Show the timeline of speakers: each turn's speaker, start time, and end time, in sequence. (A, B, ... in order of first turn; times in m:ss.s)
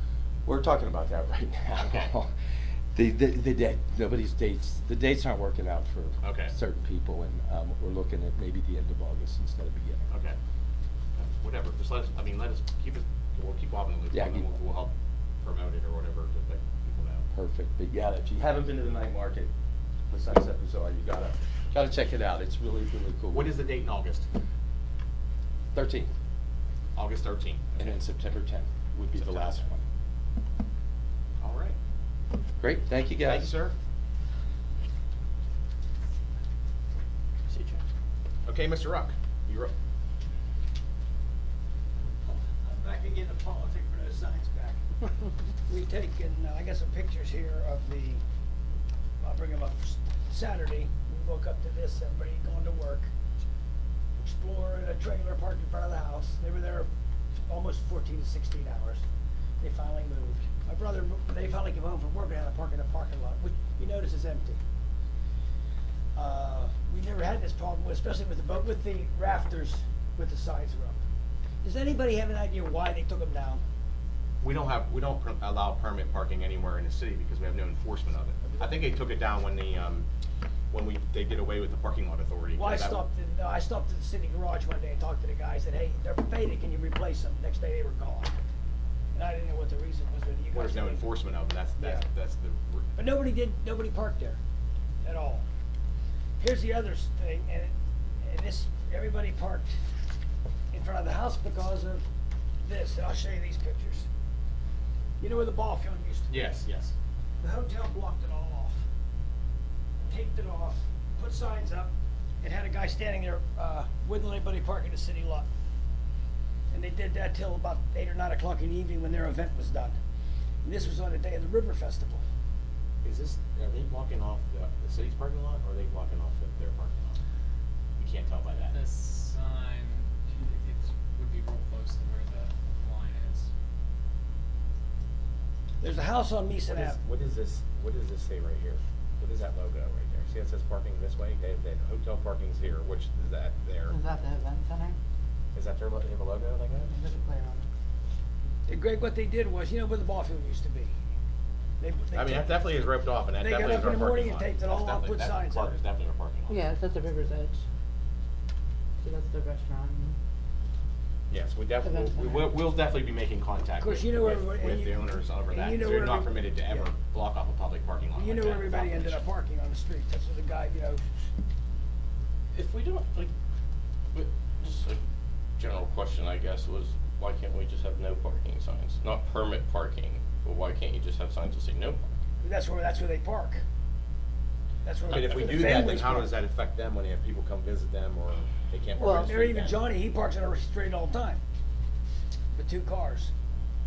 0:00.4-0:02.3 A
0:01.7-0:02.1 B
0:02.9-0:10.0 A
0:06.2-0:06.5 B
0:10.1-0:10.4 B
0:11.2-0:17.2 B
0:14.1-0:14.5 A
0:17.3-0:19.5 A
0:20.1-0:23.6 A
0:23.3-0:24.3 B
0:25.7-0:26.1 A
0:26.9-0:28.0 B
0:27.8-0:29.8 A
0:29.1-0:29.7 B
0:31.4-0:31.8 B
0:32.6-0:33.5 A
0:33.2-0:33.7 B
0:38.4-0:39.7 B
0:42.2-0:44.8 C
0:45.7-0:48.2 C
0:49.2-0:53.1 C
0:54.2-0:56.9 C
0:57.5-0:59.0 C
0:59.6-1:04.6 C
1:06.1-1:11.0 C
1:11.6-1:13.6 C
1:14.4-1:20.1 B
1:20.7-1:23.0 B
1:22.6-1:28.3 C
1:29.1-1:31.2 C
1:30.5-1:32.9 B
1:31.8-1:32.0 C
1:33.0-1:34.4 C
1:35.0-1:35.4 C
1:36.4-1:39.7 C
1:40.7-1:42.0 C
1:42.6-1:44.1 C
1:45.2-1:46.5 C
1:46.3-1:46.9 B
1:47.4-1:48.8 C
1:50.1-1:51.9 C
1:52.4-1:55.5 C
1:56.7-2:00.0 C
2:00.6-2:02.2 C
2:03.0-2:07.2 B
2:08.0-2:08.8 B
2:08.5-2:13.5 D
2:15.8-2:17.0 C
2:16.6-2:24.0 B
2:23.9-2:25.0 E
2:25.5-2:26.9 B
2:26.9-2:27.7 E
2:28.7-2:30.9 C
2:31.8-2:32.6 C
2:32.1-2:36.7 B
2:33.4-2:35.8 C
2:36.6-2:37.6 E
2:39.0-2:40.1 E
2:41.3-2:49.2 B
2:43.8-2:46.9 C
2:48.2-2:51.0 C
2:52.5-2:53.3 F
2:54.1-2:55.0 F
2:55.6-3:02.0 F
3:02.4-3:03.6 C
3:04.8-3:06.4 C
3:05.1-3:09.8 B
3:05.1-3:05.6 F
3:09.1-3:11.4 C
3:12.5-3:13.3 C